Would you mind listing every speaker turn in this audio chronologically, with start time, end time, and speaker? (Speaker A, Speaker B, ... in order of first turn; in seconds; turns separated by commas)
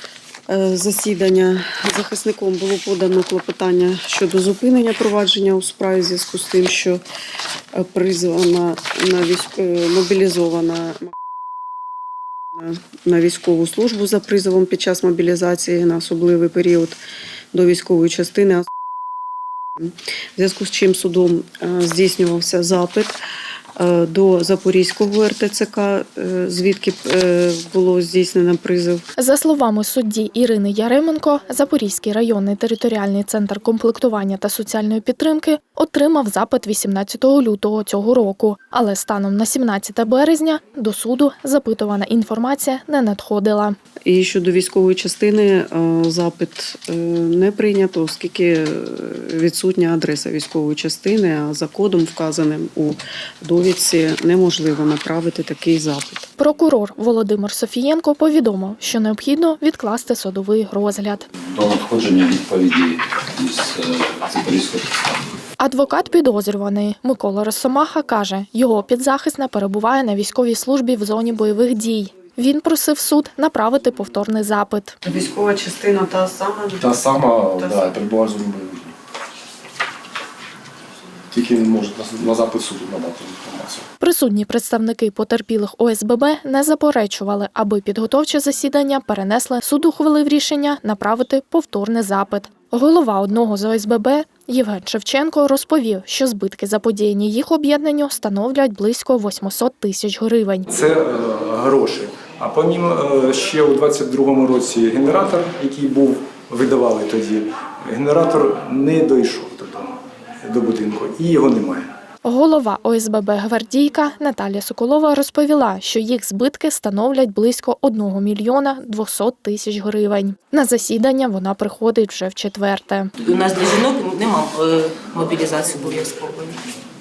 Speaker A: 0.5-7.0, Speaker A: 7.8-11.1, Speaker A: 12.5-17.0, Speaker A: 17.5-18.6, Speaker A: 19.8-23.1, Speaker A: 23.8-29.0, Speaker B: 29.2-43.8, Speaker A: 44.1-56.2, Speaker B: 56.4-61.3, Speaker C: 61.4-65.3, Speaker B: 65.6-75.0, Speaker A: 75.0-76.8, Speaker D: 76.8-78.9, Speaker D: 81.3-83.8, Speaker B: 84.0-100.7, Speaker E: 100.7-109.9, Speaker E: 110.5-111.9, Speaker B: 112.2-123.1, Speaker F: 123.2-126.6